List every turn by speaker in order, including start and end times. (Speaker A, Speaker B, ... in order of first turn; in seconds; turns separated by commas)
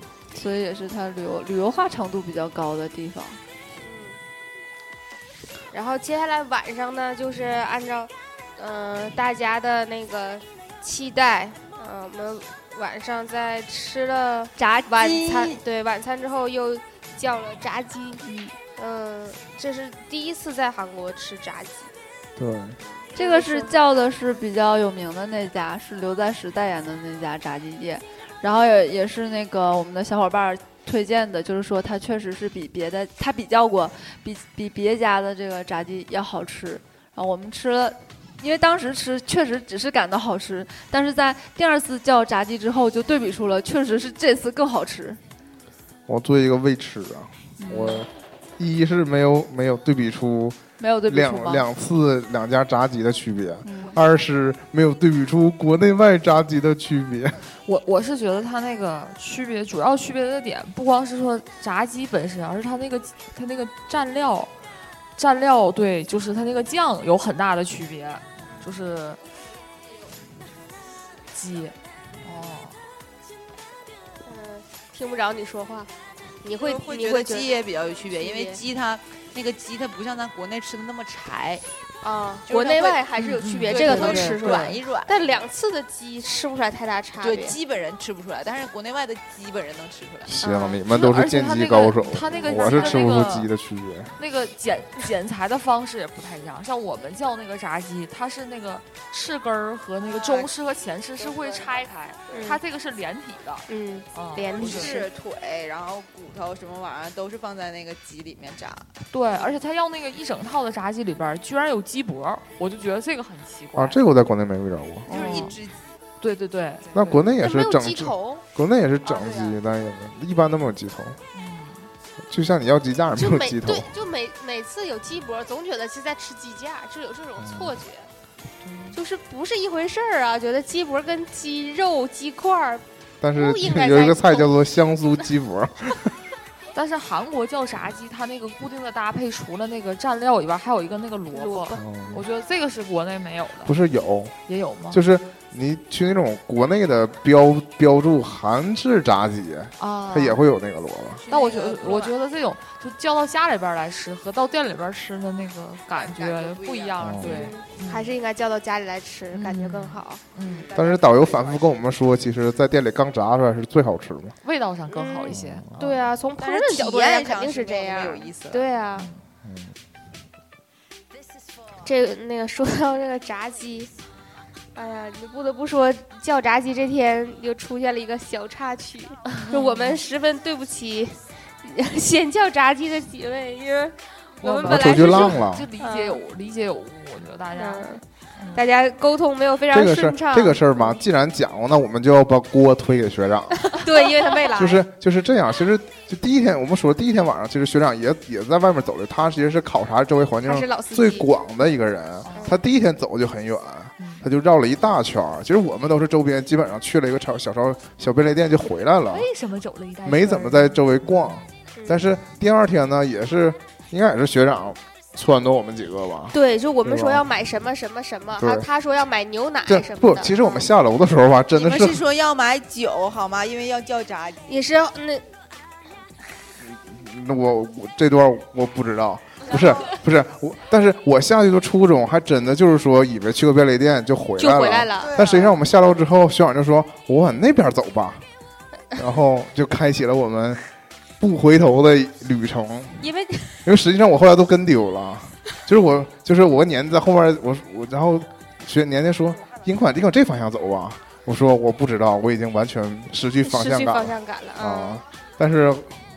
Speaker A: 0.3-3.4, Speaker B: 3.8-4.2, Speaker B: 5.7-18.2, Speaker A: 14.6-15.6, Speaker A: 18.2-18.5, Speaker B: 18.8-21.9, Speaker C: 22.4-22.8, Speaker B: 22.8-23.7, Speaker A: 23.1-45.2, Speaker C: 46.1-57.4, Speaker A: 47.6-48.0, Speaker A: 50.8-51.6, Speaker A: 53.6-54.0, Speaker D: 57.6-64.5, Speaker D: 65.2-69.2, Speaker D: 71.3-72.8, Speaker B: 74.2-75.9, Speaker B: 76.4-78.6, Speaker E: 76.6-81.6, Speaker B: 82.0-87.6, Speaker E: 82.5-83.1, Speaker D: 83.2-84.8, Speaker E: 83.7-85.3, Speaker E: 87.2-90.3, Speaker C: 90.2-94.2, Speaker B: 90.4-90.8, Speaker D: 90.9-93.5, Speaker B: 92.5-92.8, Speaker E: 92.6-93.0, Speaker D: 94.2-105.0, Speaker E: 100.1-100.5, Speaker E: 101.2-101.8, Speaker B: 102.3-102.6, Speaker B: 103.7-105.1, Speaker E: 104.6-108.9, Speaker D: 109.1-114.0, Speaker C: 113.7-115.1, Speaker E: 115.1-116.0, Speaker D: 115.1-115.6, Speaker D: 116.2-117.3, Speaker C: 116.9-121.2, Speaker B: 117.4-118.4, Speaker B: 119.0-119.6, Speaker D: 121.3-121.9, Speaker C: 122.2-123.9, Speaker B: 123.2-128.1, Speaker C: 127.4-127.7, Speaker D: 128.6-129.0, Speaker B: 128.9-132.8, Speaker C: 133.2-136.1, Speaker B: 133.3-134.5, Speaker D: 136.7-143.7, Speaker B: 141.3-141.8, Speaker C: 141.8-142.2, Speaker C: 143.6-144.4, Speaker D: 144.5-145.0, Speaker C: 144.9-151.2, Speaker D: 149.8-150.4, Speaker E: 151.2-152.1, Speaker D: 151.3-158.1, Speaker E: 155.9-157.4, Speaker C: 157.0-157.3, Speaker B: 157.2-160.2, Speaker D: 159.3-160.7, Speaker E: 160.4-161.8, Speaker C: 160.8-164.4, Speaker D: 164.4-165.7, Speaker B: 164.9-169.1, Speaker C: 165.3-165.8, Speaker E: 166.4-168.7, Speaker D: 169.0-169.2, Speaker C: 169.4-169.7, Speaker B: 171.8-173.9, Speaker B: 174.7-186.2, Speaker D: 179.4-180.0, Speaker D: 184.4-188.6, Speaker C: 184.6-185.7, Speaker B: 187.5-191.0, Speaker C: 189.7-193.8, Speaker B: 193.7-194.8, Speaker C: 194.5-209.3, Speaker B: 200.4-201.3, Speaker D: 202.2-202.6, Speaker B: 202.3-202.6, Speaker D: 204.0-204.2, Speaker D: 209.1-211.4, Speaker C: 210.0-217.2, Speaker B: 211.8-212.0, Speaker B: 216.3-220.7, Speaker C: 218.4-218.7, Speaker C: 219.7-222.0, Speaker E: 221.5-224.6, Speaker B: 224.5-225.2, Speaker C: 226.6-238.2, Speaker B: 229.5-229.9, Speaker B: 234.4-235.2, Speaker E: 235.0-235.5, Speaker C: 238.9-240.6, Speaker C: 241.2-243.1, Speaker B: 243.0-243.6, Speaker C: 243.6-256.0, Speaker B: 253.4-255.0